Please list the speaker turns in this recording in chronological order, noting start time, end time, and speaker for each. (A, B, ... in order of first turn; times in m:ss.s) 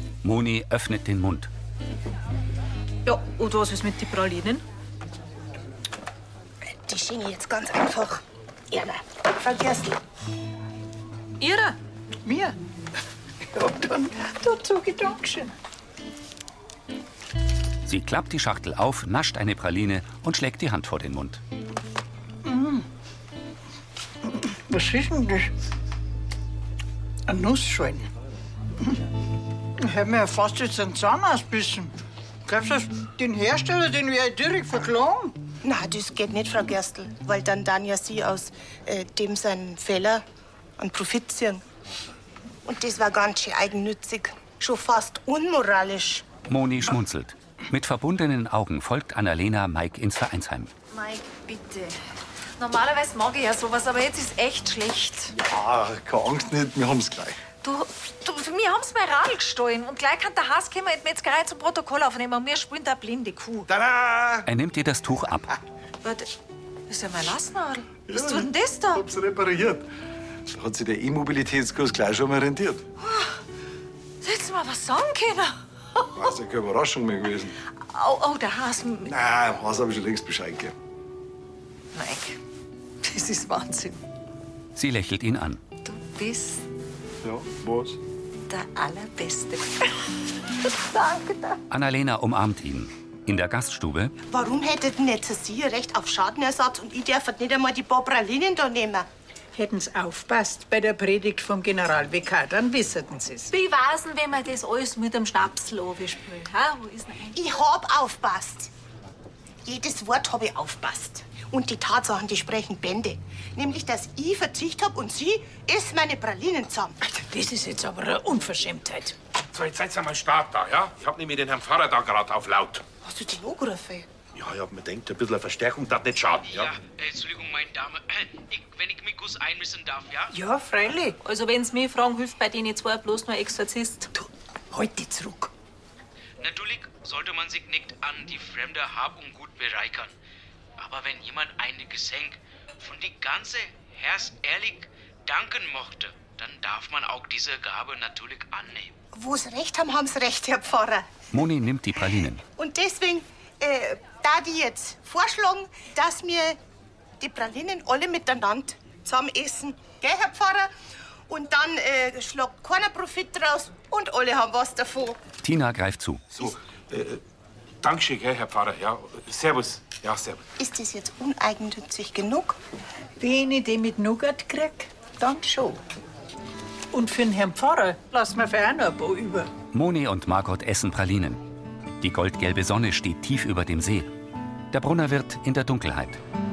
0:00.2-0:01.5 A
0:03.0-0:04.6 B
0:06.8-0:10.0 C
0:11.4-0:11.8 B
0:12.2-0:12.5 D
0:13.5-0:15.5 D
0:17.8-0:21.4 A
0:22.4-0:22.8 D
0:24.2-0:25.5 D
0:27.3-0:28.1 D
0:29.8-0:31.9 D
0:32.4-0:35.4 D
0:35.6-0:40.2 C
0:40.8-0:41.6 C
0:42.6-0:46.3 C
0:46.5-0:50.7 A
0:50.9-0:52.0 E
0:52.6-0:55.3 E
0:55.4-0:57.4 F
0:57.6-1:03.7 E
1:03.7-1:04.4 F
1:04.4-1:05.5 A
1:06.0-1:06.3 E
1:06.9-1:09.0 E
1:08.1-1:09.9 F
1:10.5-1:12.8 F
1:13.0-1:13.3 E
1:14.2-1:15.6 E
1:16.1-1:17.5 F
1:17.9-1:19.1 E
1:19.0-1:20.7 F
1:21.9-1:22.4 E
1:23.0-1:24.0 E
1:24.7-1:25.6 A
1:25.8-1:26.6 E
1:27.2-1:28.0 F
1:28.5-1:29.8 E
1:30.8-1:31.6 E
1:31.7-1:34.1 A
1:34.3-1:39.1 C
1:39.5-1:43.5 D
1:43.5-1:47.4 B
1:47.3-1:48.7 C
1:49.6-1:56.9 C
1:57.0-1:59.1 D
1:59.5-2:02.8 G
2:03.0-2:04.1 C
2:04.3-2:06.7 G
2:06.4-2:10.3 H
2:10.3-2:11.2 D
2:11.2-2:14.1 B
2:16.4-2:20.1 H
2:20.8-2:28.9 H
2:29.1-2:31.1 C
2:31.3-2:32.4 A
2:32.6-2:36.6 C
2:37.2-2:40.7 C
2:41.3-2:45.2 C
2:45.4-2:46.3 A
2:46.3-2:47.2 G
2:47.8-2:50.4 G
2:50.6-2:52.6 C
2:53.2-2:55.8 D
2:56.9-2:59.5 D
2:59.7-3:01.4 A
3:02.0-3:04.1 A
3:04.7-3:06.2 A